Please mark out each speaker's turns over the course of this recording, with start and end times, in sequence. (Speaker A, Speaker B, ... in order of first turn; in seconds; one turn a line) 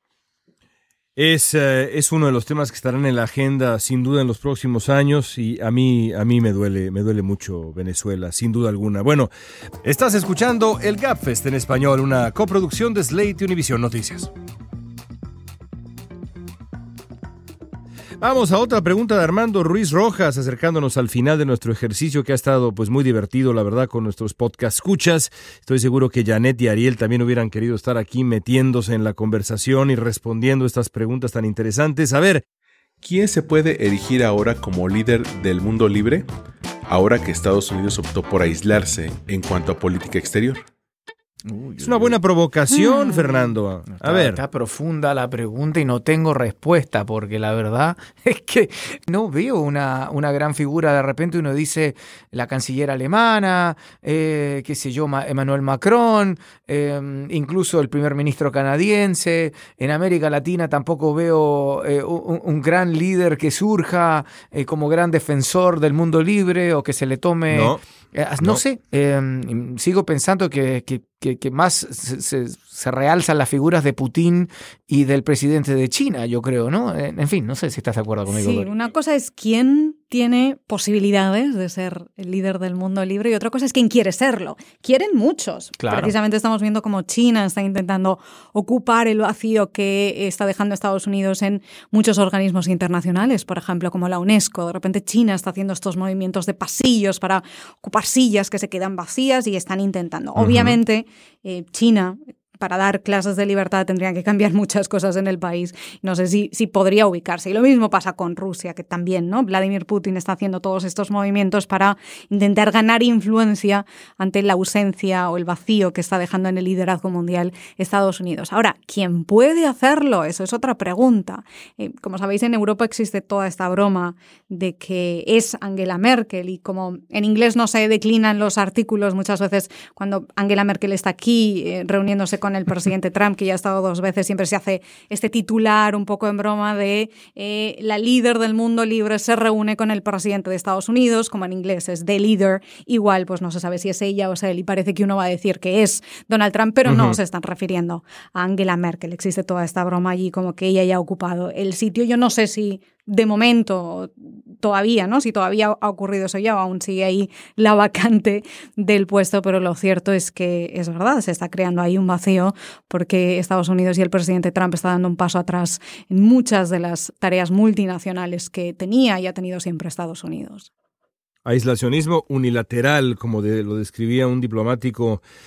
Speaker A: 1.1-9.3
Speaker A: 9.8-14.3
Speaker A: 18.2-32.4
Speaker B: 33.0-36.3
Speaker B: 36.9-40.6
Speaker C: 41.4-42.2
Speaker A: 41.8-44.4
Speaker C: 43.9-78.7
Speaker A: 67.5-67.8
Speaker D: 78.3-170.7
Speaker C: 85.8-86.1
Speaker A: 100.4-100.8
Speaker A: 146.8-147.2
Speaker A: 171.4-175.2